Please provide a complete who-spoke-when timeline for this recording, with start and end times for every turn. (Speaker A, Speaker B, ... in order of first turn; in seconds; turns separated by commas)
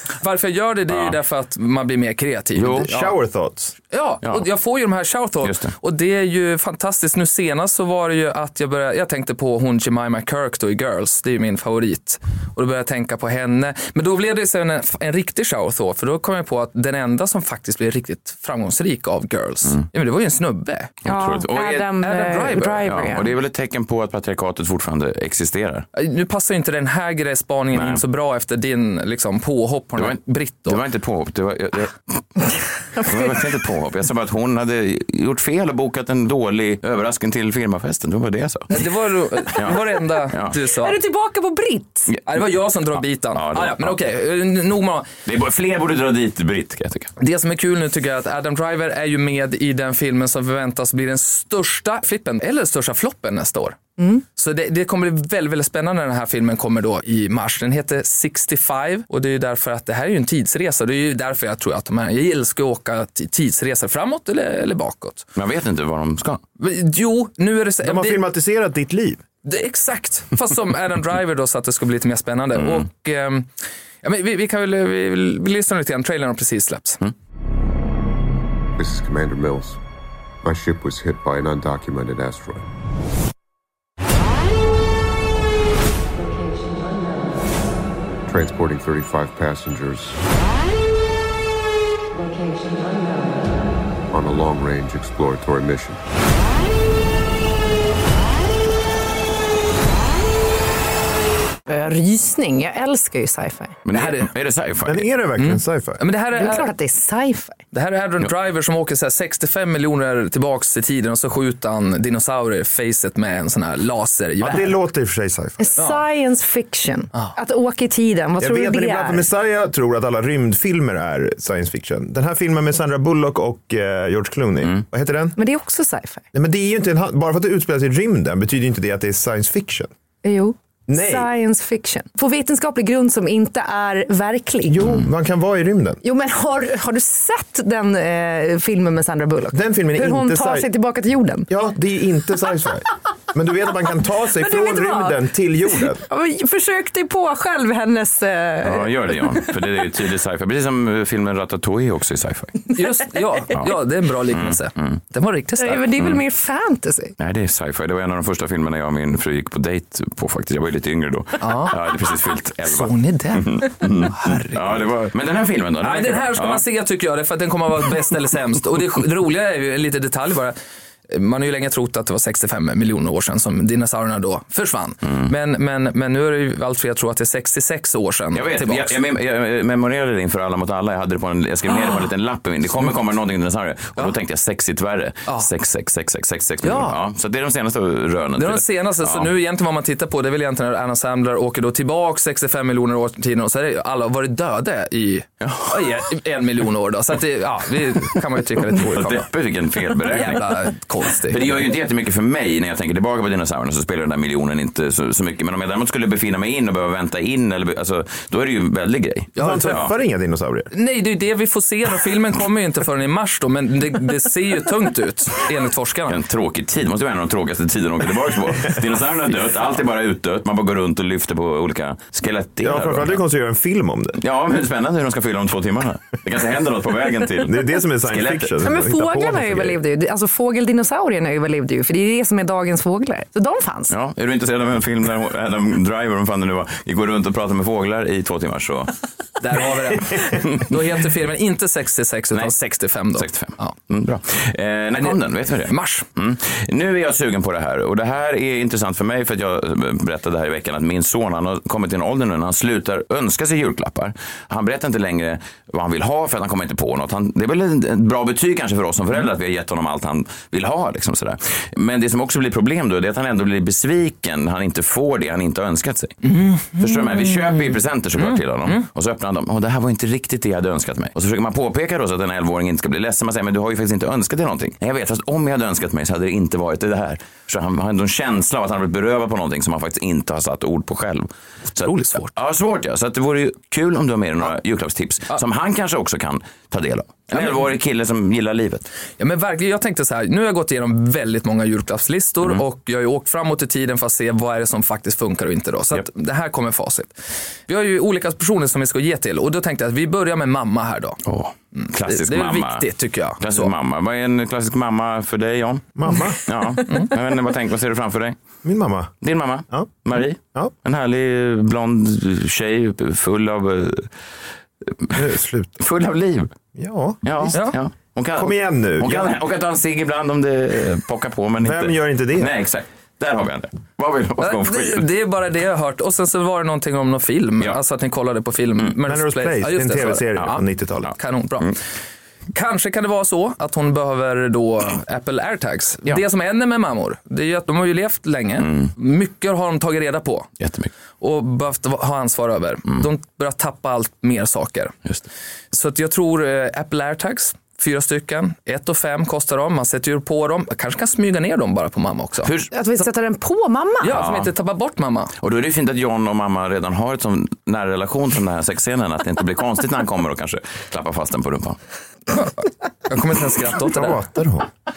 Speaker A: 0.2-3.1, Speaker B: 0.9-1.2, Speaker B: 2.5-2.9, Speaker C: 2.8-3.8, Speaker A: 3.9-20.9, Speaker B: 5.4-5.7, Speaker B: 21.0-22.0, Speaker D: 21.1-23.3, Speaker A: 22.0-22.9, Speaker B: 22.8-25.9, Speaker A: 25.9-30.8, Speaker B: 27.7-28.0, Speaker B: 30.0-38.8, Speaker A: 38.7-41.0, Speaker B: 39.5-40.5, Speaker D: 40.7-42.1, Speaker A: 42.2-45.1, Speaker B: 43.3-44.0, Speaker B: 45.2-47.1, Speaker A: 47.2-65.3, Speaker B: 65.4-66.4, Speaker A: 66.6-68.2, Speaker C: 67.8-69.2, Speaker A: 69.4-73.5, Speaker A: 74.0-77.0, Speaker E: 78.8-79.8, Speaker E: 80.4-82.6, Speaker D: 86.2-87.4, Speaker E: 88.3-90.2, Speaker D: 92.1-93.5, Speaker E: 94.1-96.0, Speaker D: 101.7-103.8, Speaker B: 103.9-105.1, Speaker A: 103.9-104.3, Speaker C: 104.8-106.0, Speaker A: 105.4-106.7, Speaker D: 106.3-107.6, Speaker A: 107.7-114.8, Speaker C: 114.4-115.7, Speaker D: 115.6-119.2, Speaker A: 115.8-116.0, Speaker C: 118.4-125.4, Speaker D: 125.4-126.2, Speaker C: 126.3-129.9, Speaker D: 130.2-135.0, Speaker C: 130.9-131.3, Speaker C: 134.7-136.0, Speaker D: 136.0-141.5, Speaker C: 139.5-140.7, Speaker C: 141.5-146.1, Speaker D: 144.4-145.2, Speaker D: 145.9-149.5, Speaker B: 148.6-152.8, Speaker A: 152.7-155.9, Speaker B: 154.3-155.0, Speaker D: 155.6-157.1, Speaker B: 157.2-166.6, Speaker A: 161.4-162.0, Speaker A: 162.6-164.8, Speaker A: 165.8-170.6, Speaker A: 171.1-179.0, Speaker B: 178.3-189.3, Speaker A: 186.6-186.9, Speaker A: 188.4-199.3, Speaker B: 195.4-195.9, Speaker B: 198.7-200.6, Speaker A: 200.1-201.7, Speaker B: 201.3-209.9, Speaker A: 209.3-209.8, Speaker C: 209.4-210.7, Speaker A: 210.7-216.2, Speaker B: 216.1-223.2, Speaker C: 222.6-224.2, Speaker B: 224.2-228.5, Speaker C: 227.4-229.8, Speaker D: 228.6-233.9, Speaker B: 233.9-238.9, Speaker A: 239.4-243.8, Speaker B: 240.2-240.6, Speaker B: 243.1-266.2, Speaker A: 245.0-246.1, Speaker A: 266.2-267.1, Speaker B: 266.8-288.9, Speaker A: 268.2-268.8, Speaker A: 281.8-282.3, Speaker A: 289.2-297.1, Speaker A: 297.7-301.2, Speaker B: 301.2-302.9, Speaker A: 301.8-303.7, Speaker B: 303.4-308.4, Speaker C: 306.0-306.4, Speaker C: 308.6-309.1, Speaker B: 309.2-314.1, Speaker B: 314.9-316.5, Speaker C: 315.1-315.8, Speaker C: 316.8-317.5, Speaker B: 317.2-325.0, Speaker C: 318.4-319.4, Speaker C: 321.6-322.5, Speaker A: 324.4-331.8, Speaker C: 329.1-331.1, Speaker A: 332.5-340.5, Speaker B: 338.6-338.9, Speaker B: 340.6-340.9, Speaker A: 341.2-345.0, Speaker A: 345.7-352.5, Speaker B: 352.4-352.7, Speaker D: 352.7-354.2, Speaker A: 354.0-355.3, Speaker B: 354.1-354.5, Speaker B: 355.4-361.8, Speaker A: 363.1-364.2, Speaker C: 363.8-364.7